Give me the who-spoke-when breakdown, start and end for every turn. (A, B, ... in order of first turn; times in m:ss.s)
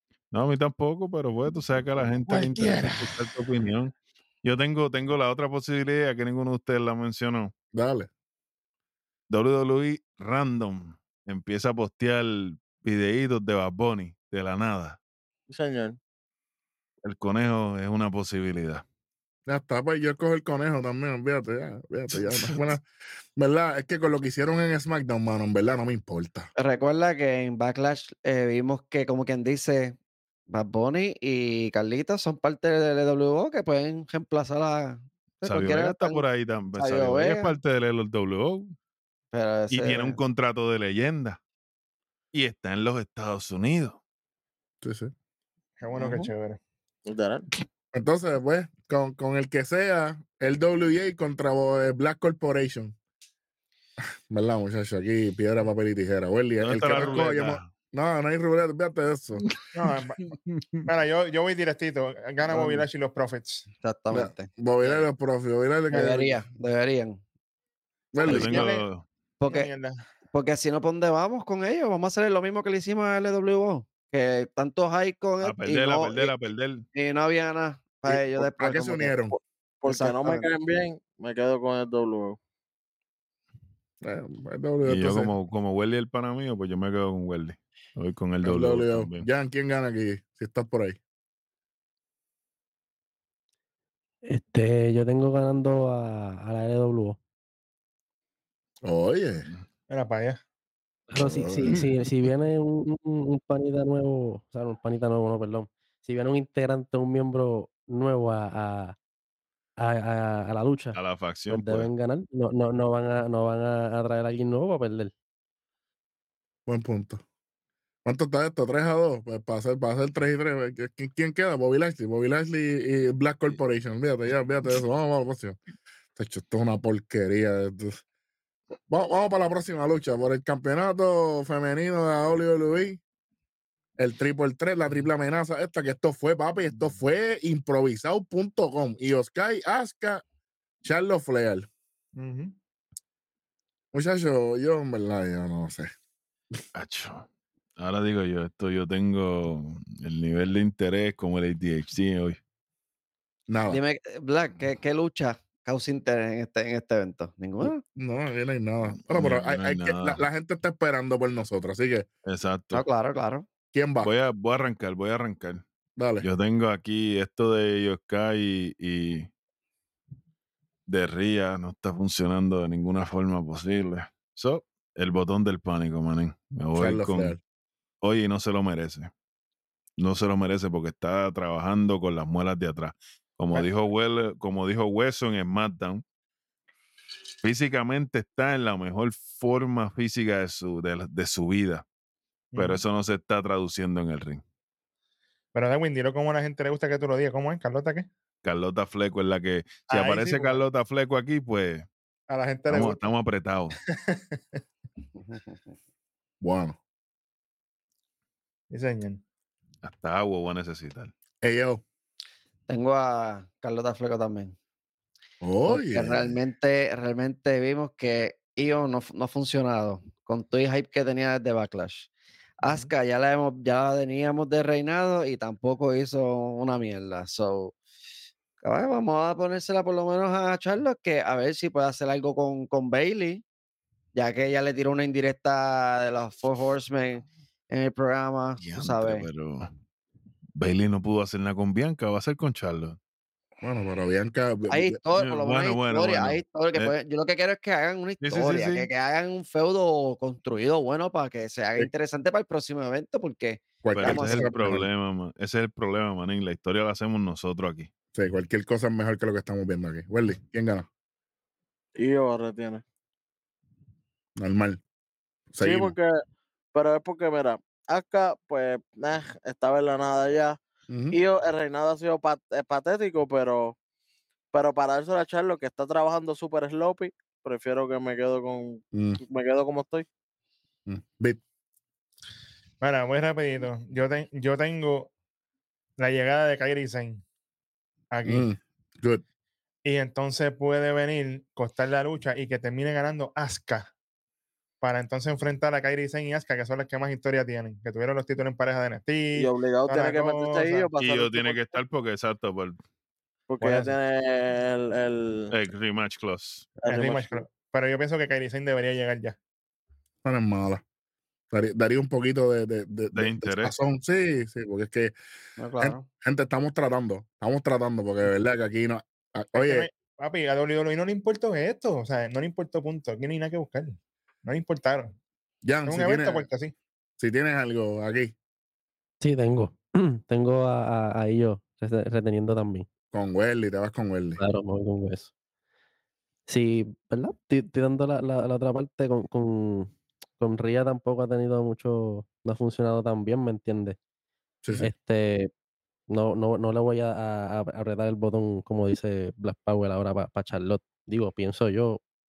0:00.3-0:07.5 A
0:02.3-0:03.3 B
0:07.7-0:08.1 B
0:09.3-0:15.0 A
0:15.5-0:16.0 C
0:17.0-0:18.8 A
0:19.5-0:22.8 B
0:23.4-0:26.5 B
0:26.6-0:30.0 D
0:30.5-0:37.6 D
0:35.4-0:38.8 A
0:39.3-0:40.2 D
0:39.7-0:41.4 A
0:42.3-0:44.0 A
0:44.8-0:45.1 B
0:45.8-0:46.6 E
0:46.0-0:46.3 D
0:47.1-0:47.5 C
0:47.9-0:53.0 B
0:54.3-0:59.4 B
0:56.6-0:57.7 A
0:59.7-1:00.2 E
1:00.2-1:00.9 A
1:00.9-1:03.7 E
1:02.5-1:02.9 D
1:03.8-1:05.0 D
1:04.1-1:06.3 B
1:05.9-1:07.2 D
1:08.1-1:08.7 B
1:08.2-1:08.9 E
1:08.2-1:09.0 A
1:09.4-1:09.7 D
1:09.4-1:10.0 E
1:10.3-1:16.4 D
1:15.4-1:16.9 A
1:16.9-1:19.3 D
1:18.1-1:19.4 B
1:19.8-1:22.4 C
1:19.8-1:20.5 D
1:24.0-1:25.3 B
1:24.8-1:29.3 A
1:28.4-1:31.0 B
1:34.2-1:37.2 F
1:38.8-1:39.5 B
1:39.9-1:40.4 E
1:41.1-1:49.0 F
1:41.2-1:41.8 B
1:49.8-1:55.1 F
1:51.0-1:51.9 A
1:56.7-1:57.2 B
1:58.0-2:05.6 B
2:06.2-2:08.0 B
2:08.9-2:13.0 B
2:14.0-2:20.2 B
2:20.8-2:21.7 B
2:22.2-2:22.6 E
2:23.9-2:25.9 B
2:26.8-2:27.3 A
2:27.8-2:32.4 A
2:33.5-2:33.8 B
2:33.7-2:37.8 D
2:37.9-2:42.1 B
2:39.1-2:40.2 A
2:42.3-2:42.8 A
2:42.7-2:43.5 D
2:43.7-2:44.1 B
2:44.0-2:45.6 A
2:46.0-2:46.3 B
2:46.2-2:49.3 A
2:50.9-2:57.4 A
2:56.7-2:57.4 B
2:58.0-2:59.1 A
3:00.0-3:06.0 A
3:07.4-3:11.8 A
3:12.5-3:12.8 E
3:12.6-3:14.4 A
3:15.5-3:18.1 E
3:18.4-3:21.9 A
3:19.9-3:20.6 E
3:22.3-3:23.1 E
3:22.7-3:23.8 A
3:23.9-3:24.6 E
3:25.2-3:25.6 D
3:26.4-3:26.8 B
3:28.7-3:29.2 E
3:29.8-3:31.1 A
3:31.4-3:31.8 B
3:32.7-3:34.6 D
3:35.4-3:36.3 B
3:35.7-3:42.1 D
3:42.6-3:47.7 D
3:48.6-3:53.4 D
3:54.1-3:59.3 D
3:58.6-3:59.7 A
4:00.6-4:03.0 A
4:03.6-4:05.0 B
4:04.7-4:14.8 D
4:05.2-4:06.9 A
4:08.2-4:08.9 A
4:13.8-4:14.9 B
4:13.9-4:17.9 A
4:18.1-4:20.9 B
4:22.0-4:22.8 C
4:24.4-4:24.8 B
4:25.5-4:26.0 B
4:25.6-4:26.2 C
4:26.7-4:30.6 C
4:30.9-4:31.2 B
4:31.1-4:33.8 C
4:34.5-4:40.1 C
4:38.9-4:39.2 B
4:40.9-4:41.4 B
4:42.8-4:45.1 E
4:46.0-4:47.2 E
4:48.1-4:48.5 E
4:48.2-4:49.2 B
4:49.8-4:53.9 E
4:54.8-5:00.9 E
4:59.4-5:01.8 C
5:01.0-5:02.8 A
5:03.5-5:05.5 C
5:03.6-5:04.0 E
5:05.5-5:06.7 A
5:06.8-5:07.4 C
5:06.8-5:09.4 E
5:10.2-5:10.8 B
5:11.5-5:15.2 B
5:13.1-5:13.7 A
5:15.6-5:16.1 D
5:15.8-5:19.9 B
5:19.5-5:25.2 E
5:25.6-5:26.5 B
5:25.9-5:26.7 E
5:27.2-5:28.4 B
5:29.2-5:32.9 F
5:33.1-5:34.4 B
5:34.4-5:35.3 F
5:36.5-5:44.0 F
5:44.6-5:44.9 B
5:44.8-5:45.5 F
5:46.1-5:52.0 F